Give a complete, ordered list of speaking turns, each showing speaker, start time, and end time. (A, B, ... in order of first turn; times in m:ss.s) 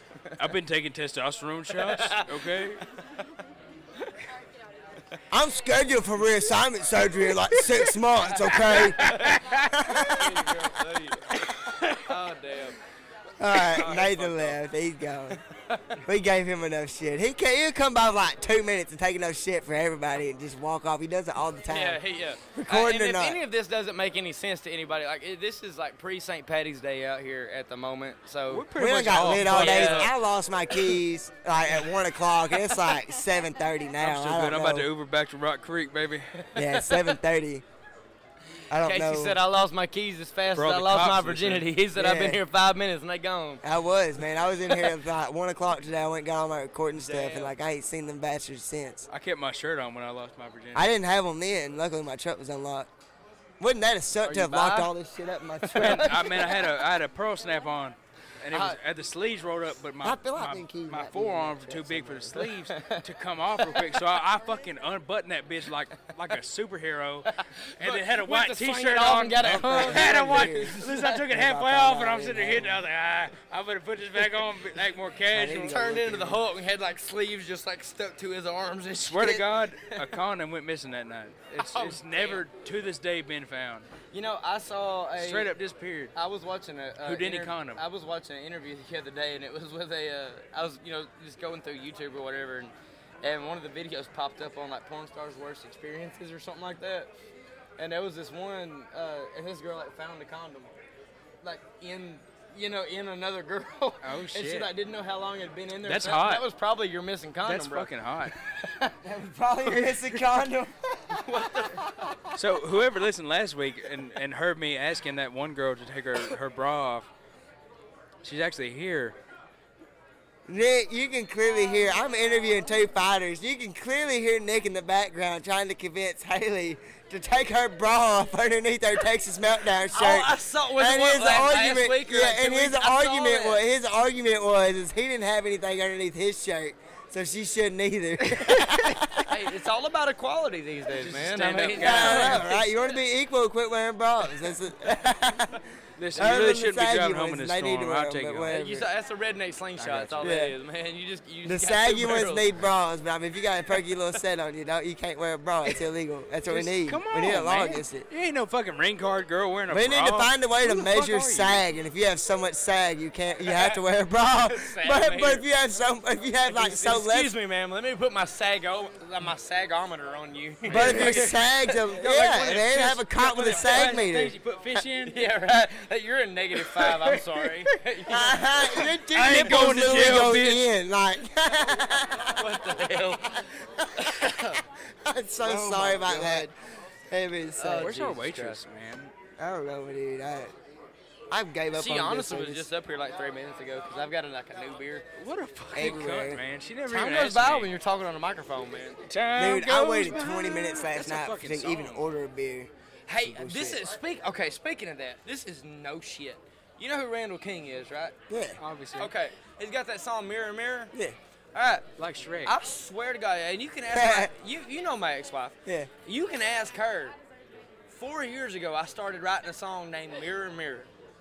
0:00.4-0:02.8 A
0:01.8-0:02.8 B
0:05.3-0:09.2 C
0:08.3-0:11.3 B
0:08.8-0:09.7 A
0:09.7-0:10.3 C
0:11.9-0:12.8 B
0:13.4-0:15.4 C
0:13.5-0:14.6 B
0:15.3-0:16.0 B
0:16.0-0:22.0 C
0:21.7-0:30.1 B
0:22.6-0:23.4 C
0:28.5-0:30.1 A
0:28.7-0:34.9 C
0:34.0-0:36.3 A
0:36.5-0:37.6 C
0:36.6-0:37.2 B
0:38.7-0:39.4 C
0:38.8-0:43.6 B
0:40.5-0:41.7 A
0:42.0-0:42.4 C
0:43.6-0:49.1 C
0:46.9-0:47.5 B
0:49.1-0:50.9 A
0:50.7-0:52.9 C
0:53.6-0:56.1 C
0:54.2-0:54.9 B
0:55.6-0:56.8 B
0:55.8-1:07.3 A
0:58.5-0:58.8 B
1:00.0-1:02.4 C
1:02.4-1:04.0 B
1:07.2-1:11.2 B
1:07.8-1:15.8 A
1:09.4-1:12.8 C
1:15.3-1:16.4 C
1:15.6-1:20.2 B
1:19.0-1:23.9 A
1:21.5-1:22.4 B
1:24.1-1:25.5 B
1:25.2-1:26.1 A
1:26.1-1:37.1 B
1:27.0-1:27.8 A
1:37.8-1:40.8 B
1:41.4-1:47.9 B
1:44.0-1:44.7 A
1:45.8-1:46.4 A
1:47.4-1:48.3 A
1:48.5-1:50.0 B
1:49.1-1:51.7 C
1:51.2-1:51.9 B
1:52.3-1:57.1 A
1:58.2-1:59.2 A
2:00.5-2:19.3 C
2:09.9-2:13.6 B
2:19.3-2:22.6 B
2:20.9-2:22.5 A
2:21.8-2:25.6 C
2:26.0-2:28.5 A
2:26.2-2:28.9 C
2:28.5-2:32.5 B
2:29.8-2:30.1 A
2:29.8-2:30.5 C
2:31.4-2:38.1 C
2:36.5-2:41.6 A
2:39.7-2:47.3 C
2:43.5-2:43.8 B
2:44.5-2:45.4 B
2:46.4-2:54.2 B
2:50.6-2:51.3 A
2:50.7-2:54.4 C
2:52.8-2:55.2 A
2:55.0-2:58.6 B
2:56.8-2:57.5 A
2:58.1-3:02.6 C
2:59.0-3:00.7 A
3:02.4-3:03.4 B
3:03.8-3:04.1 C
3:04.0-3:04.6 B
3:05.0-3:06.5 C
3:05.4-3:06.5 B
3:07.1-3:07.9 C
3:07.6-3:08.6 B
3:07.7-3:09.1 A
3:09.4-3:10.5 C
3:11.3-3:12.7 C
3:11.7-3:15.1 B
3:15.1-3:17.7 A
3:15.7-3:16.4 C
3:16.9-3:19.0 B
3:19.0-3:22.0 A
3:19.4-3:22.7 C
3:23.1-3:28.2 B
3:23.2-3:23.8 C
3:28.3-3:28.6 C
3:28.6-3:29.1 A
3:29.0-3:30.9 B
3:31.5-3:31.9 B
3:32.0-3:32.5 A
3:32.4-3:37.1 B
3:33.9-3:34.3 C
3:37.9-3:40.9 B